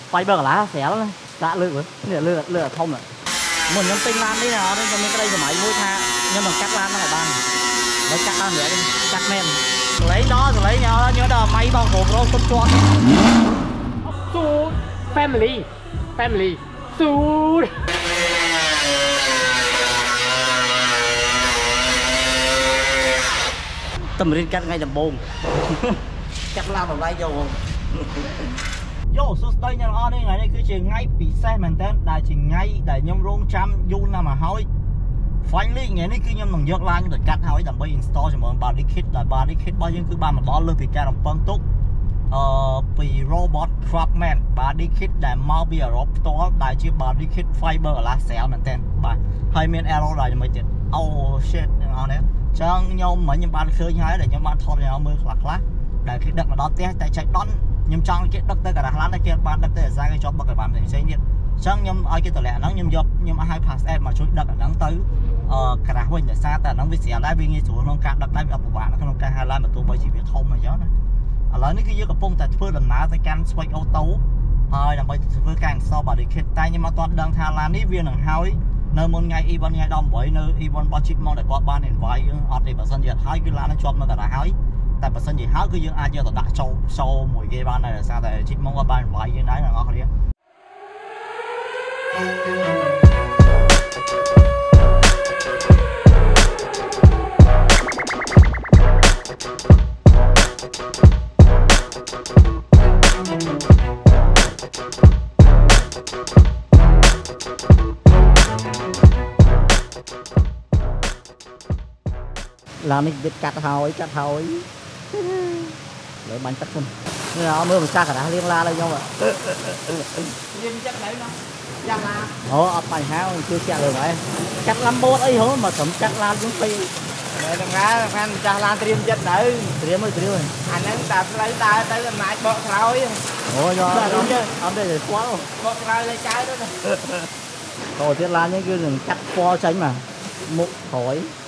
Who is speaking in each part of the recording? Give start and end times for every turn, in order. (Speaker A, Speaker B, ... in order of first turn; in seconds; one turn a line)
Speaker A: 0.1-3.1
Speaker A: 3.7-7.4
Speaker A: 8.1-12.8
Speaker B: 14.2-17.7
Speaker A: 24.2-28.5
Speaker A: 29.1-34.7
Speaker A: 35.4-41.6
Speaker A: 42.3-70.9
Speaker A: 71.5-90.1
Speaker A: 112.8-120.3
Speaker C: 120.5-122.3
Speaker A: 122.5-126.9
Speaker C: 127.3-129.8
Speaker A: 129.8-130.5
Speaker C: 130.7-133.2
Speaker A: 133.5-135.5
Speaker C: 133.9-134.4
Speaker C: 135.6-136.8
Speaker A: 136.9-137.3
Speaker A: 138.0-141.3